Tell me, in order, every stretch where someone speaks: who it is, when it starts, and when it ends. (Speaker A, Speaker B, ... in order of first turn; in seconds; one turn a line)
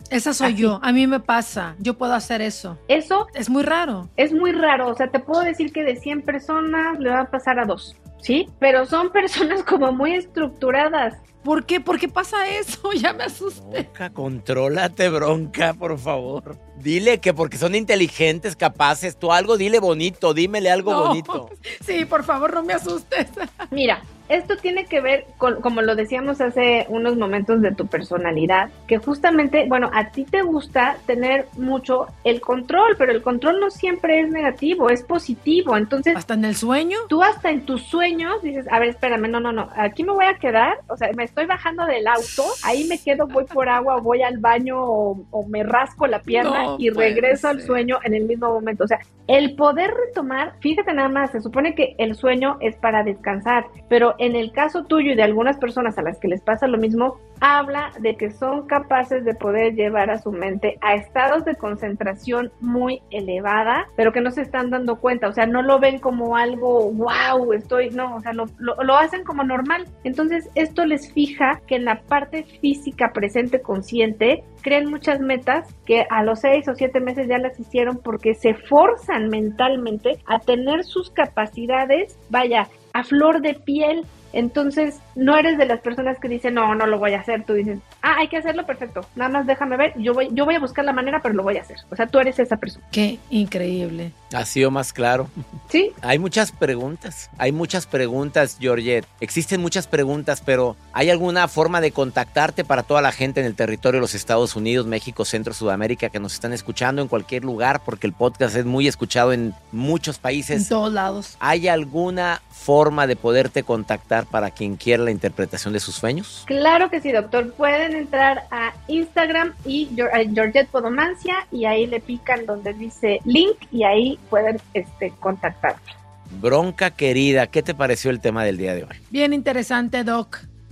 Speaker A: 0.1-2.8
Speaker B: 0.4-0.7
Speaker B: 2.9-3.3
Speaker A: 3.3-4.1
Speaker B: 4.2-11.2
Speaker A: 11.4-13.9
Speaker C: 13.5-21.5
Speaker A: 20.8-23.5
Speaker B: 23.7-36.2
Speaker A: 36.1-37.1
Speaker B: 37.1-92.8
Speaker A: 46.3-47.8
Speaker A: 92.9-94.1
Speaker C: 94.3-95.3
Speaker B: 95.7-95.9
Speaker C: 96.0-110.7
Speaker A: 110.5-111.3
Speaker C: 111.4-116.5
Speaker B: 116.5-125.9
Speaker C: 126.3-129.0
Speaker A: 129.1-130.4